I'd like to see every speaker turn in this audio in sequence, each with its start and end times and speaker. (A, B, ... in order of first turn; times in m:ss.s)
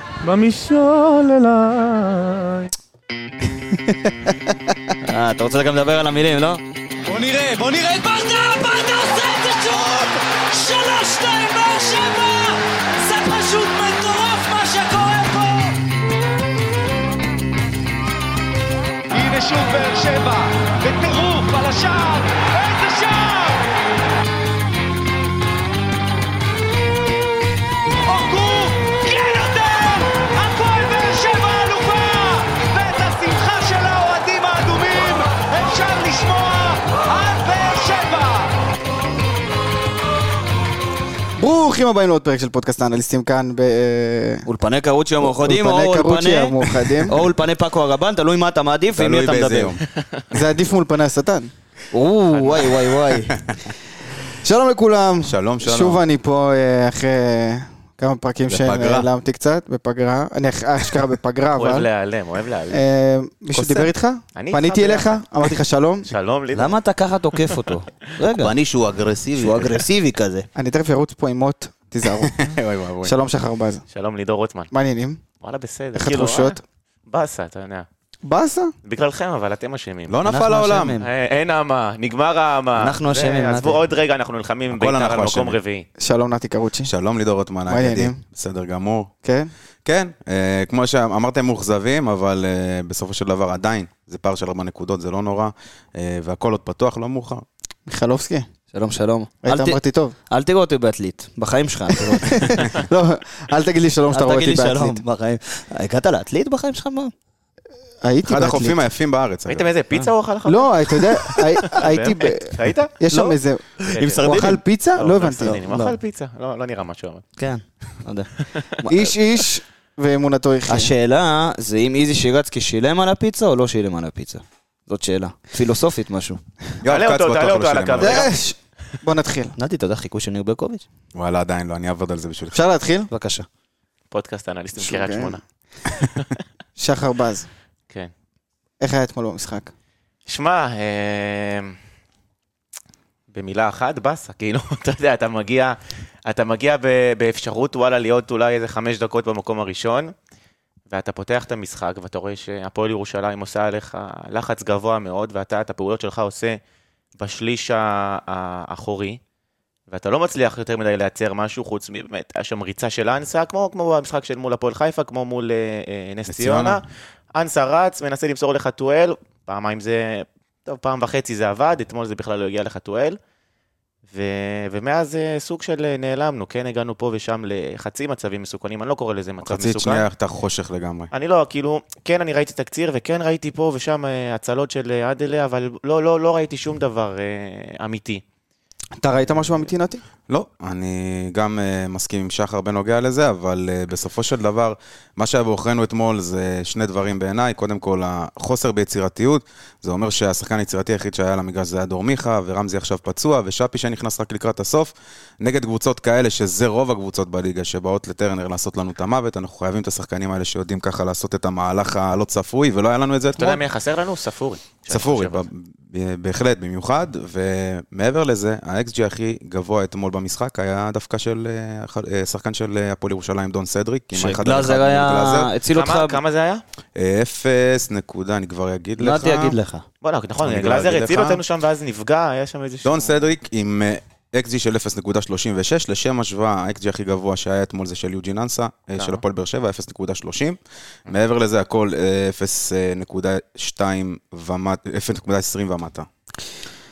0:00.3-0:02.6 A
0:04.0-0:04.3 B
0:05.0-0:06.6 C
0:07.0-0:15.8 A
0:19.1-0:23.6 A
0:28.1-0:38.5 A
0:41.4-0:44.5 B
0:44.5-0:46.6 C
0:45.2-0:47.1 B
0:46.8-0:47.1 D
0:47.1-0:49.8 C
0:48.9-0:49.8 D
0:50.3-0:51.5 B
0:51.9-0:53.4 C
0:52.3-0:52.8 E
0:53.1-0:53.4 D
0:54.4-1:01.9 B
0:55.2-0:56.0 D
0:58.5-0:59.1 D
1:01.6-1:02.8 E
1:02.7-1:06.1 B
1:03.5-1:03.9 D
1:04.4-1:05.5 E
1:06.0-1:06.8 E
1:06.5-1:08.7 C
1:08.4-1:09.6 D
1:09.2-1:10.5 C
1:10.6-1:13.8 B
1:12.2-1:13.2 D
1:13.9-1:14.7 E
1:14.7-1:15.2 B
1:15.4-1:17.9 E
1:16.0-1:16.6 B
1:18.2-1:18.7 B
1:18.8-1:20.1 E
1:20.1-1:21.0 D
1:20.2-1:21.1 C
1:21.0-1:25.9 E
1:22.8-1:23.8 C
1:24.7-1:25.6 D
1:26.0-1:26.9 B
1:26.9-1:29.1 D
1:27.7-1:28.2 B
1:29.2-1:29.5 B
1:29.8-1:37.4 D
1:37.9-1:38.5 B
1:38.7-1:39.8 C
1:39.4-1:40.2 B
1:40.3-1:42.7 C
1:42.1-1:45.0 B
1:44.1-1:47.1 C
1:48.0-1:48.8 B
1:48.3-1:49.7 D
1:49.5-1:53.3 E
1:50.5-1:56.0 B
1:53.9-1:54.6 C
1:53.9-1:54.4 E
1:55.0-1:57.2 E
1:57.4-1:59.1 C
1:58.8-2:00.9 B
2:00.7-2:06.4 C
2:06.8-2:08.3 D
2:06.8-2:08.3 E
2:08.0-2:09.6 B
2:09.6-2:10.8 C
2:11.2-2:12.6 D
2:12.5-2:13.1 B
2:13.1-2:13.5 C
2:14.1-2:15.4 E
2:14.8-2:15.3 B
2:16.8-2:17.5 B
2:18.8-2:19.7 B
2:20.3-2:21.8 E
2:23.3-2:30.1 E
2:30.9-2:36.6 E
2:37.2-2:39.2 E
2:39.9-2:53.2 E
2:46.3-2:46.8 D
2:54.1-3:00.1 E
2:59.4-3:01.1 D
3:01.1-3:08.2 E
3:09.0-3:10.0 B
3:10.3-3:33.6 D
3:33.4-3:35.5 E
3:34.9-3:45.5 D
3:44.2-3:46.2 C
3:45.7-3:46.6 E
3:47.0-3:49.6 D
3:49.0-3:49.8 C
3:50.0-3:53.3 E
3:50.4-3:51.4 D
3:52.8-4:06.1 D
3:59.0-3:59.2 E